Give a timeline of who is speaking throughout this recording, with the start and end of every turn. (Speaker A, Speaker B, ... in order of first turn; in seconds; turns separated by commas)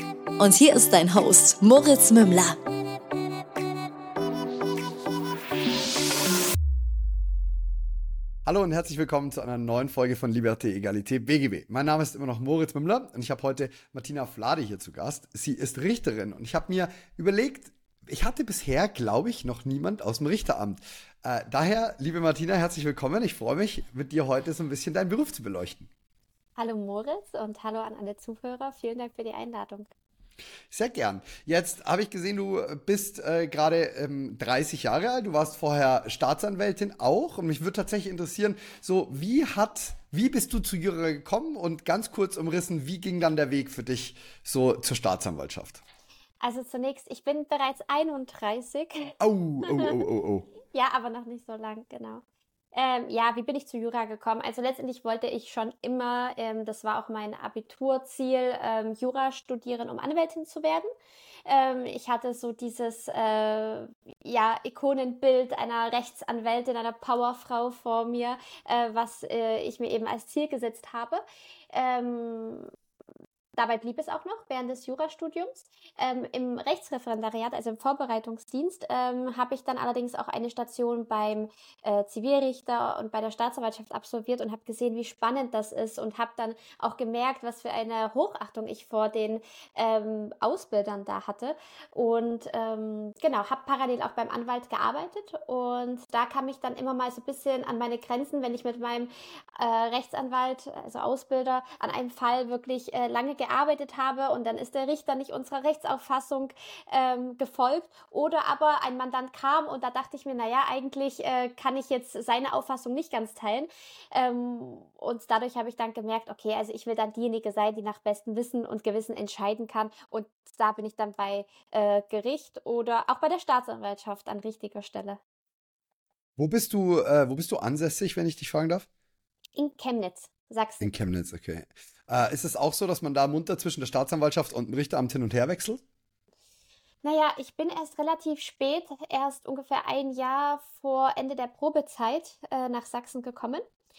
Speaker A: 0.4-2.6, Speaker B: 8.5-25.9, Speaker C: 26.6-29.9, Speaker B: 30.7-45.8, Speaker C: 46.4-49.1, Speaker B: 49.2-50.5, Speaker C: 49.7-49.9, Speaker C: 50.7-52.2, Speaker C: 52.7-60.9, Speaker C: 61.5-72.7, Speaker C: 73.6-125.2, Speaker B: 126.4-128.9, Speaker C: 129.6-131.0, Speaker B: 130.8-135.8, Speaker C: 137.0-143.6